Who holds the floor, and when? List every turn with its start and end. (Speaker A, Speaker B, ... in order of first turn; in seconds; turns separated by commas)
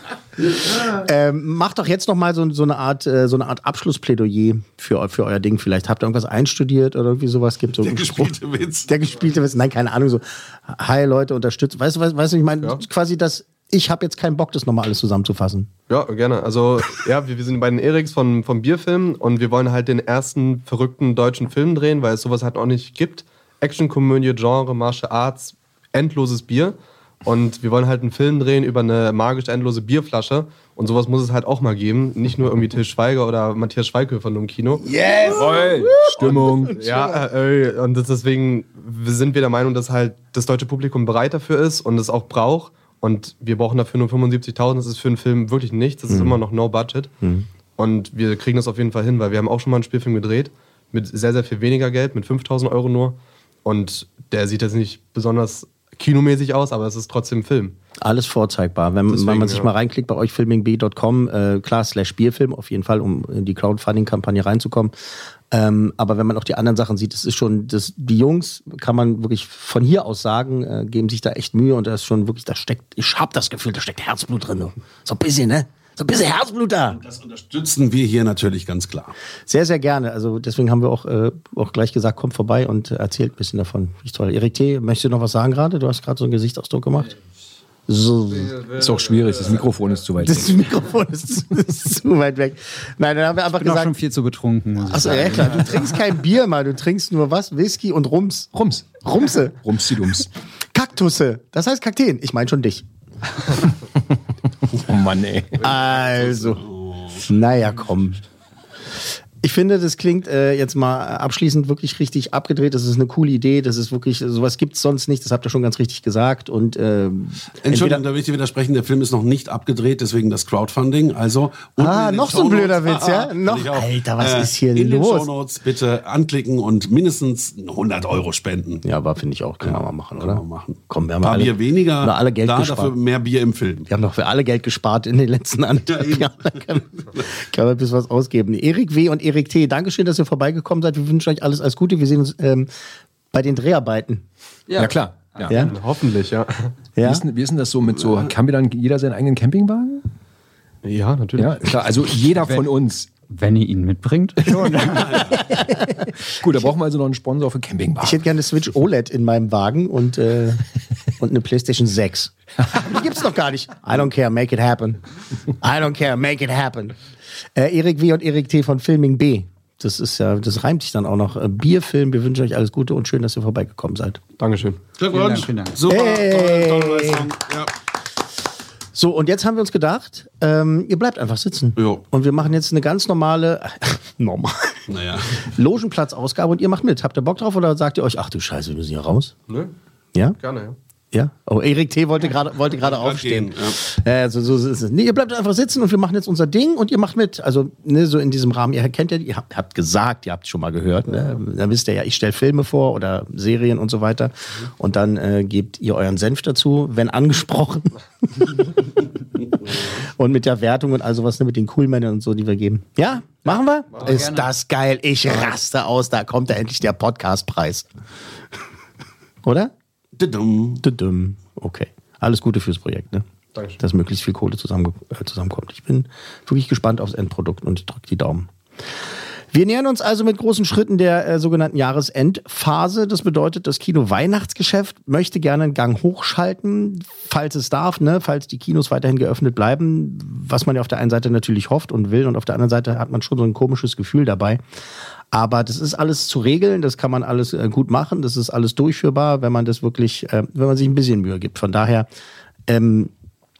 Speaker A: 0.7-8.3, Speaker B: 7.8-8.9, Speaker A: 8.9-15.7, Speaker C: 15.9-34.8, Speaker A: 34.8-37.2, Speaker D: 35.3-36.8, Speaker C: 36.3-47.1, Speaker A: 46.1-46.4, Speaker A: 47.2-47.5, Speaker C: 47.8-57.8, Speaker A: 58.0-64.9, Speaker C: 59.1-59.7, Speaker A: 65.5-77.0, Speaker B: 76.9-79.1, Speaker A: 79.5-87.1, Speaker A: 87.9-88.6, Speaker D: 88.6-90.6, Speaker A: 90.2-93.9, Speaker E: 93.5-95.8, Speaker A: 94.8-99.6, Speaker D: 98.5-99.0, Speaker D: 99.6-100.3, Speaker A: 100.7-102.8, Speaker D: 104.7-105.6, Speaker A: 105.6-106.6, Speaker B: 105.7-107.3, Speaker A: 107.2-108.2, Speaker A: 109.4-118.0, Speaker B: 117.6-128.8, Speaker A: 121.8-125.3, Speaker A: 128.8-132.9, Speaker B: 129.6-133.9, Speaker A: 133.9-142.7, Speaker B: 135.9-136.2, Speaker A: 143.3-144.2, Speaker E: 144.7-145.7, Speaker D: 144.8-145.6, Speaker C: 145.6-146.7, Speaker A: 147.0-147.2, Speaker D: 147.0-150.0, Speaker C: 150.8-151.6, Speaker D: 151.3-153.1, Speaker E: 152.4-152.7, Speaker E: 153.3-155.3, Speaker B: 155.0-155.3, Speaker A: 155.3-155.7, Speaker D: 156.2-158.2, Speaker A: 158.0-160.6, Speaker A: 161.2-165.0, Speaker A: 165.6-166.9, Speaker A: 167.5-174.2, Speaker C: 174.4-174.8, Speaker B: 175.0-177.7, Speaker E: 175.1-175.8, Speaker A: 175.8-177.3, Speaker A: 178.9-184.8, Speaker B: 181.8-182.0, Speaker B: 184.9-185.4, Speaker A: 185.4-189.3, Speaker C: 190.4-190.8, Speaker A: 191.1-208.6, Speaker B: 192.8-193.8, Speaker A: 209.8-217.9, Speaker C: 213.9-214.2, Speaker E: 214.0-214.5, Speaker A: 219.4-219.7, Speaker B: 220.2-220.8, Speaker A: 220.8-223.2, Speaker C: 223.5-223.8, Speaker A: 223.8-228.5, Speaker A: 229.5-244.6, Speaker A: 245.3-252.1, Speaker A: 252.7-253.1